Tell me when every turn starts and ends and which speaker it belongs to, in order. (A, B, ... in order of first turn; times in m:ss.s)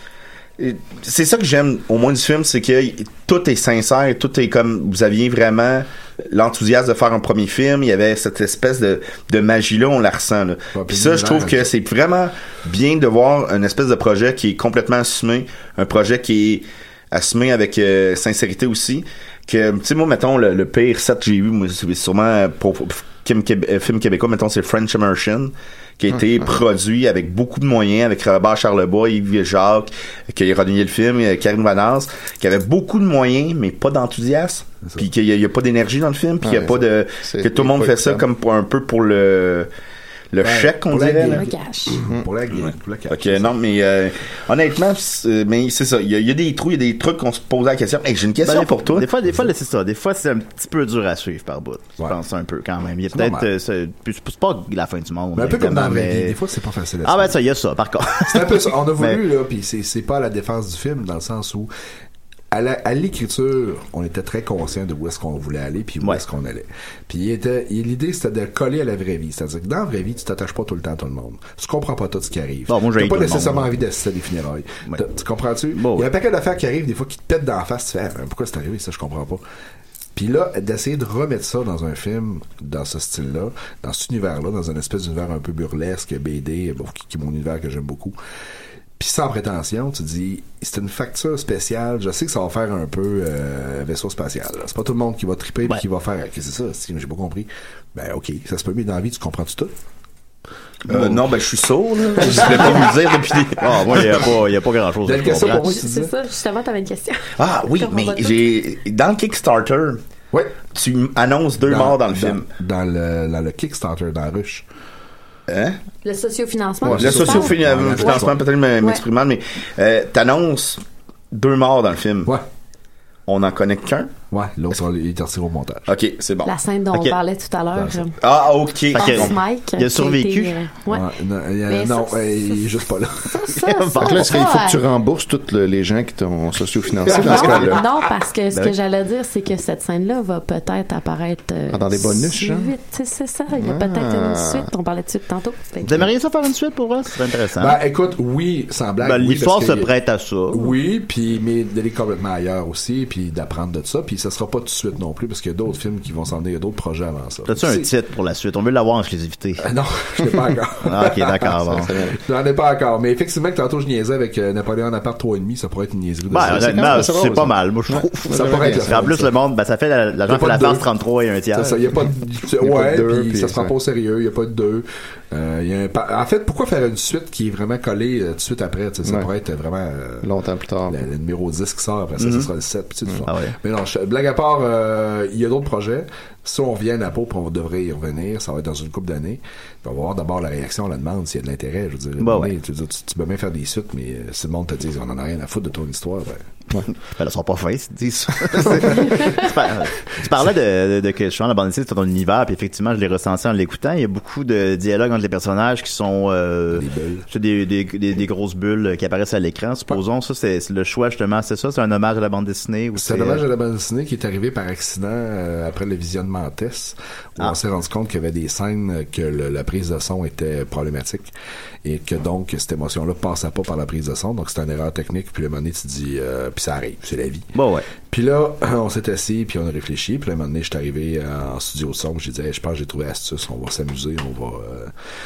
0:00.6-0:39.7 A
0:10.7-0:11.7 B
0:36.4-0:38.2 C
0:40.3-0:41.4 A
0:40.4-0:43.6 B
0:41.3-0:42.0 D
0:42.6-0:49.1 A
0:48.4-0:56.4 E
0:53.1-0:53.5 B
0:55.4-0:57.4 B
0:57.0-0:59.2 E
0:58.2-1:01.7 B
1:02.5-1:19.4 B
1:12.7-1:13.7 E
1:15.8-1:16.1 E
1:20.2-1:28.2 B
1:29.0-1:39.7 B
1:40.9-1:44.2 A
1:40.9-1:41.3 B
1:42.2-1:42.9 B
1:43.6-1:45.7 E
1:45.0-1:46.1 B
1:45.4-1:48.4 D
1:47.4-1:50.0 A
1:50.7-1:52.5 A
1:51.6-1:54.7 B
1:55.5-1:55.8 A
1:56.0-1:58.2 D
1:56.8-1:58.4 B
1:56.9-2:00.8 A
2:01.3-2:02.4 A
2:03.3-2:04.1 A
2:04.3-2:05.9 B
2:05.9-2:06.5 A
2:06.5-2:08.1 D
2:07.7-2:08.0 B
2:08.2-2:09.4 A
2:08.9-2:10.6 E
2:08.9-2:11.1 D
2:10.9-2:13.5 B
2:11.7-2:12.7 D
2:13.3-2:14.8 D
2:13.6-2:14.6 E
2:14.0-2:17.8 C
2:17.1-2:17.7 B
2:17.2-2:26.1 D
2:21.7-2:22.7 C
2:23.6-2:24.7 C
2:25.8-2:27.8 E
2:27.6-2:29.9 B
2:29.0-2:30.7 E
2:30.5-2:37.9 B
2:37.5-2:39.7 E
2:39.6-2:47.1 B
2:40.8-2:41.9 E
2:41.8-2:42.2 C
2:46.3-2:51.8 E
2:46.4-2:49.1 C
2:48.3-2:49.3 B
2:50.3-2:50.9 B
2:51.5-3:00.3 B
2:52.6-2:53.7 C
3:00.2-3:01.0 C
3:00.9-3:16.5 B
3:02.2-3:02.5 A
3:03.3-3:03.5 E
3:12.2-3:12.5 E
3:17.1-3:33.4 E
3:26.7-3:27.3 B
3:32.9-3:41.3 B
3:41.8-3:54.9 B
3:47.6-3:47.8 E